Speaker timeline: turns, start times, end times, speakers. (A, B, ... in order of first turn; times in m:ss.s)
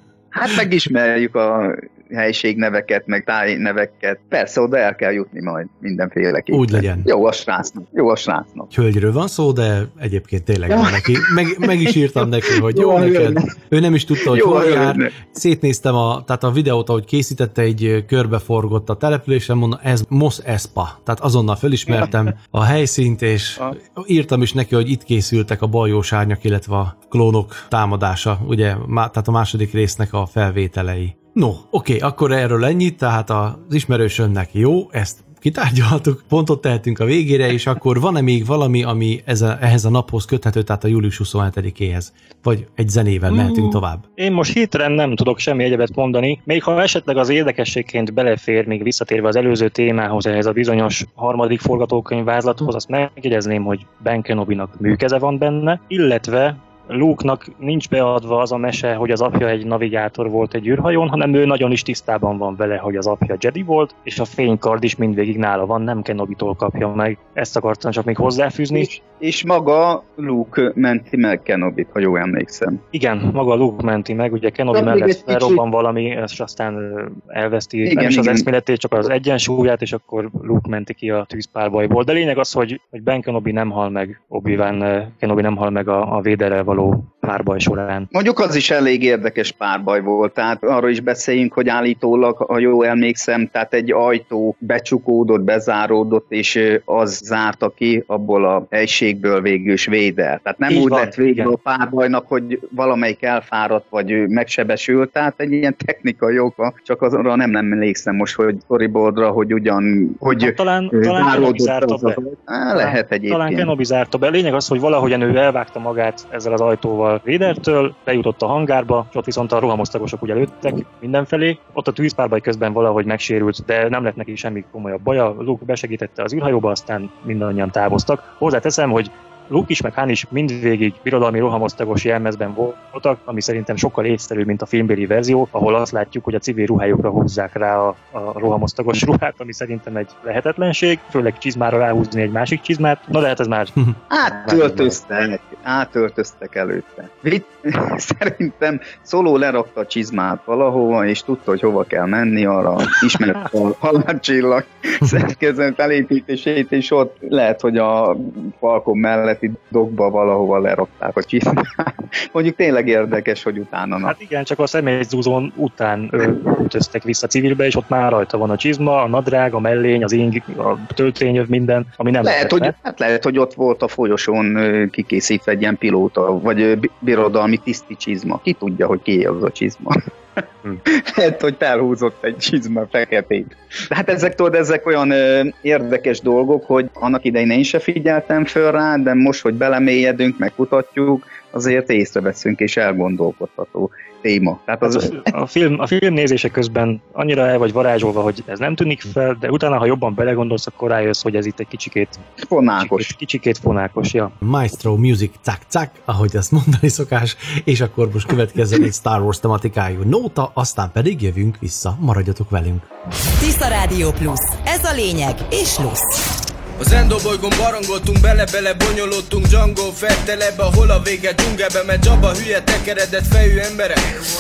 0:00.3-0:08.7 A
0:06.5-0:07.1 B
0:08.7-0:44.0 B
0:10.7-0:13.5 A
0:14.2-0:15.1 A
0:43.3-1:09.0 C
1:08.7-1:12.8 A
1:12.9-1:28.1 C
1:14.7-1:15.6 A
1:17.8-1:18.5 A
1:28.1-1:53.7 A
1:40.7-1:41.6 C
1:50.3-1:52.2 C
1:52.8-2:23.7 C
2:24.1-2:44.2 A
2:24.3-2:25.0 C
2:44.0-2:52.7 C
2:52.2-3:15.2 A
3:14.8-3:22.2 C
3:22.4-3:23.1 A
3:22.8-3:24.3 C
3:24.4-3:32.9 B
3:33.4-3:36.2 D
3:36.8-3:44.0 E